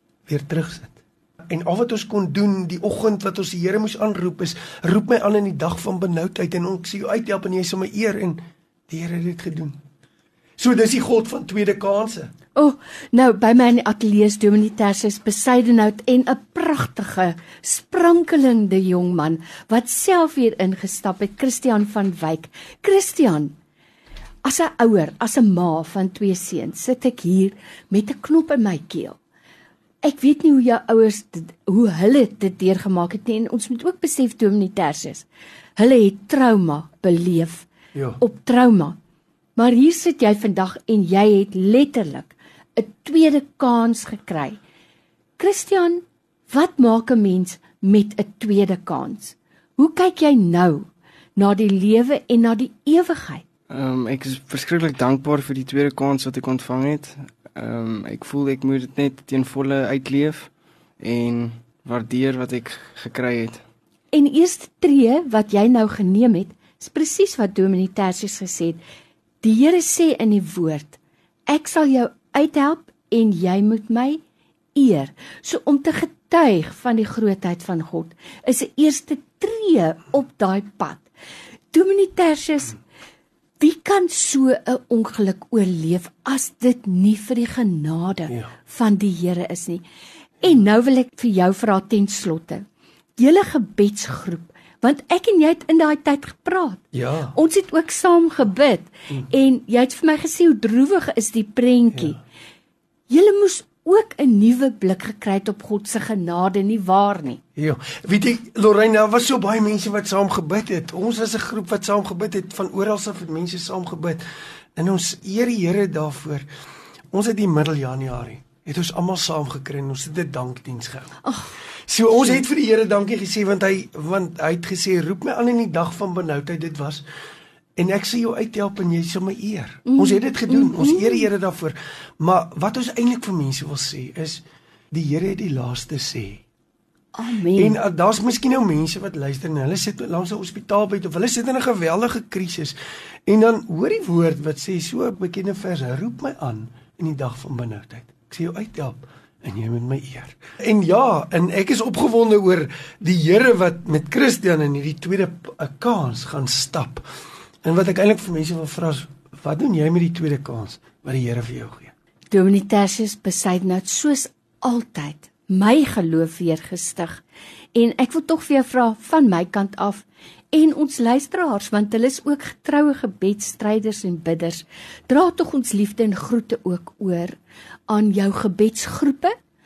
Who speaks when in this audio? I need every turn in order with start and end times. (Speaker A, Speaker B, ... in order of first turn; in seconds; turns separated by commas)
Speaker A: 0.3-9.8, Speaker A: 10.6-12.3, Speaker B: 12.6-23.5, Speaker B: 24.4-29.2, Speaker B: 30.0-37.7, Speaker A: 37.9-38.2, Speaker B: 38.2-39.0, Speaker B: 39.6-44.6, Speaker B: 45.4-53.5, Speaker C: 53.7-63.6, Speaker B: 64.1-68.8, Speaker B: 69.4-74.2, Speaker B: 74.7-81.1, Speaker B: 81.7-82.8, Speaker B: 83.6-89.8, Speaker B: 90.4-92.6, Speaker B: 93.2-96.8, Speaker A: 96.9-97.4, Speaker B: 97.3-102.2, Speaker B: 103.1-107.4, Speaker A: 107.6-114.2, Speaker A: 114.8-116.5, Speaker A: 117.1-121.2, Speaker B: 121.2-121.5, Speaker A: 121.9-127.0, Speaker A: 127.8-136.4, Speaker B: 129.9-131.3, Speaker B: 137.1-137.8, Speaker A: 137.6-142.8, Speaker A: 143.3-157.1, Speaker A: 157.6-161.9, Speaker B: 162.3-167.2, Speaker B: 167.7-177.4, Speaker B: 177.9-179.3